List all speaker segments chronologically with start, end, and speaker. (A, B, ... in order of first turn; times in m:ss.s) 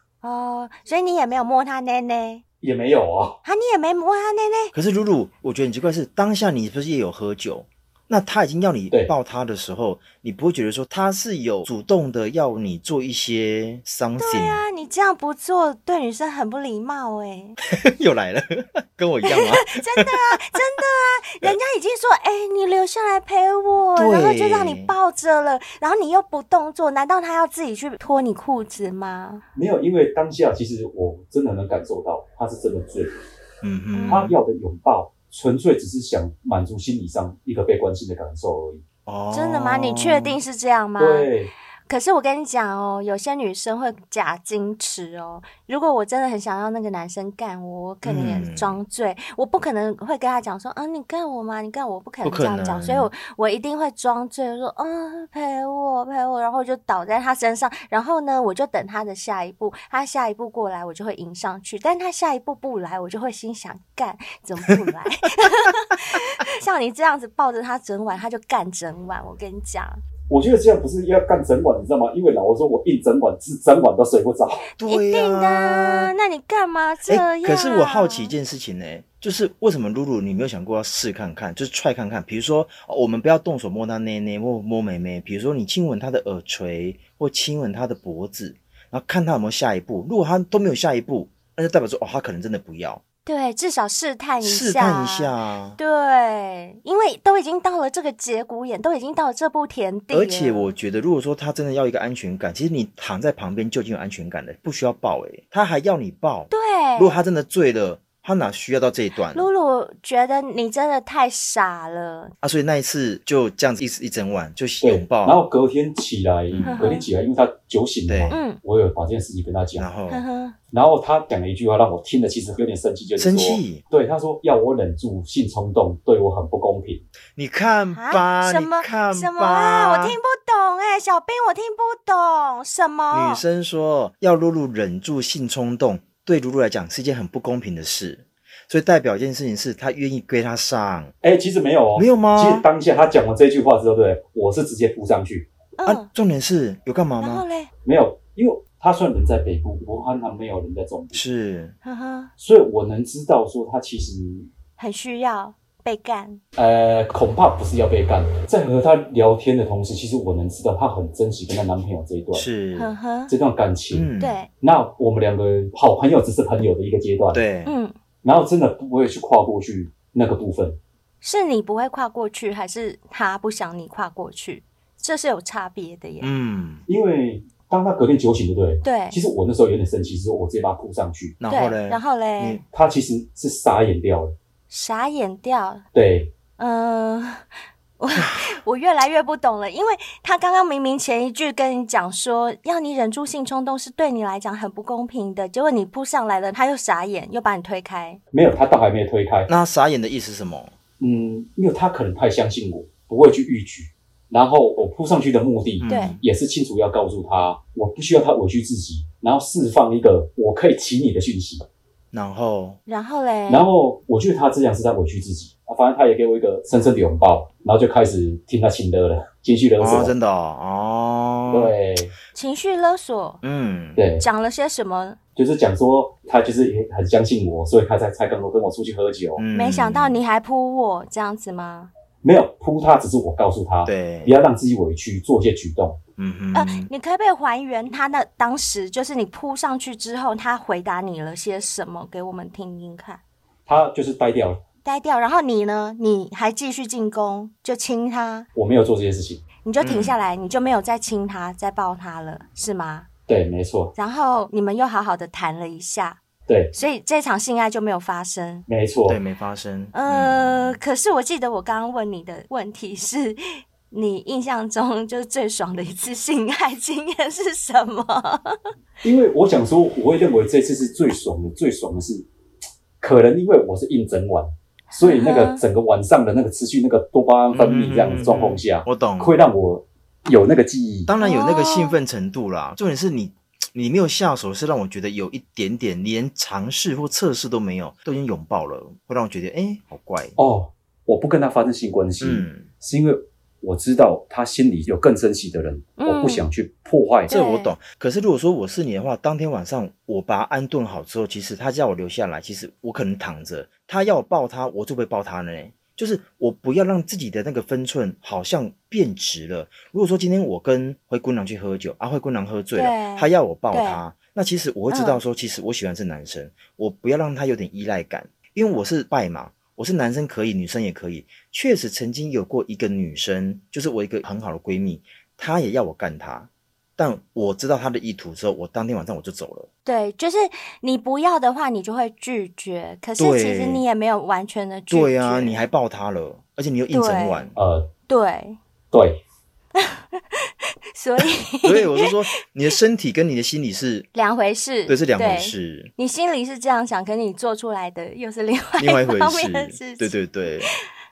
0:00.2-0:02.4 A
0:02.6-0:03.4 B
0:03.4-0:04.7 A
0:04.7-0:14.6 C
0:14.2-0:17.6 A
0:17.7-0:20.1 C
0:19.3-0:29.4 A
0:24.0-0:24.9 C
0:29.5-0:33.1 B
0:33.6-0:34.4 C
0:33.9-0:34.2 A
0:34.1-0:38.8 B
0:39.0-0:40.4 C
0:39.3-0:41.3 A
0:41.0-0:41.5 B
0:41.9-1:10.0 A
0:48.0-0:48.8 C
0:52.2-0:53.1 C
1:10.3-1:14.6 B
1:14.8-1:16.1 C
1:14.8-1:18.3 A
1:17.1-1:33.0 C
1:33.2-1:40.7 A
1:34.4-1:35.8 C
1:40.1-1:49.5 C
1:46.5-1:47.2 A
1:49.3-1:52.3 A
1:52.4-1:55.4 C
1:54.8-1:59.9 B
1:56.5-1:56.9 C
1:56.6-1:57.1 A
1:58.1-1:58.4 C
1:58.3-1:58.6 A
1:59.8-2:00.2 C
2:00.1-2:00.6 A
2:00.7-2:07.0 B
2:03.2-2:03.8 C
2:07.3-2:10.2 C
2:07.9-2:13.4 A
2:13.1-2:21.1 C
2:21.2-2:25.5 B
2:21.9-2:22.6 C
2:25.8-2:26.1 A
2:25.8-2:27.4 C
2:27.2-2:27.7 A
2:27.8-2:31.2 B
2:31.1-2:31.8 C
2:31.8-2:32.3 A
2:32.4-2:34.5 B
2:34.8-2:36.4 A
2:36.6-2:42.5 B
2:42.3-2:42.9 C
2:42.8-2:43.3 A
2:43.3-2:44.1 B
2:43.9-2:44.4 C
2:44.2-2:44.5 A
2:44.6-2:47.4 B
2:47.3-2:47.7 C
2:47.6-2:48.0 A
2:48.2-2:50.8 B
2:51.2-2:56.3 A
2:56.2-2:56.8 C
2:56.9-3:01.4 B
2:58.8-2:59.2 A
3:01.4-3:02.6 C
3:01.5-3:02.6 A
3:02.7-3:04.3 B
3:04.7-3:05.8 A
3:05.9-3:06.3 B
3:06.6-3:07.4 A
3:08.0-3:18.2 A
3:18.3-3:19.5 B
3:19.5-3:20.7 C
3:21.0-3:31.6 B
3:25.8-3:26.2 C
3:25.9-3:26.2 A
3:32.1-3:32.8 C
3:32.9-3:33.7 A
3:33.5-3:40.1 B
3:39.8-3:41.7 C
3:41.5-3:42.1 B
3:42.3-3:43.4 A
3:43.4-3:44.0 C
3:44.0-3:44.2 B
3:44.2-3:45.2 A
3:45.4-3:49.4 B
3:49.4-3:50.2 C
3:49.5-3:51.9 A
3:52.2-3:56.0 B
3:53.8-3:54.3 C
3:56.2-3:56.9 C
3:56.5-4:03.2 A
4:03.7-4:04.6 B
4:04.8-4:08.5 A
4:08.5-4:09.4 B
4:09.6-4:13.1 A
4:09.8-4:10.1 C
4:13.3-4:13.9 B
4:14.0-4:16.2 A
4:16.5-4:16.7 B
4:16.7-4:18.6 A
4:18.7-4:19.2 B
4:19.1-4:20.8 C
4:19.9-4:28.6 A
4:29.0-4:32.3 B
4:33.0-4:41.1 B
4:35.0-4:35.6 A
4:37.5-4:39.3 C
4:41.1-4:50.4 C
4:41.2-4:42.0 A
4:50.4-4:57.4 B
4:52.2-4:52.7 C
4:56.0-4:56.4 A
4:57.3-5:29.7 C
4:57.3-4:57.7 A
5:12.7-5:14.0 A
5:14.9-5:15.2 A
5:29.8-5:35.6 A
5:33.2-5:33.8 C
5:34.9-5:37.6 C
5:36.9-5:37.5 A
5:37.6-5:37.9 B
5:38.1-5:38.6 A
5:38.9-5:39.2 B
5:39.7-5:42.2 A
5:41.2-5:44.1 C
5:44.1-5:50.2 A
5:44.9-5:45.9 C
5:48.8-5:50.7 C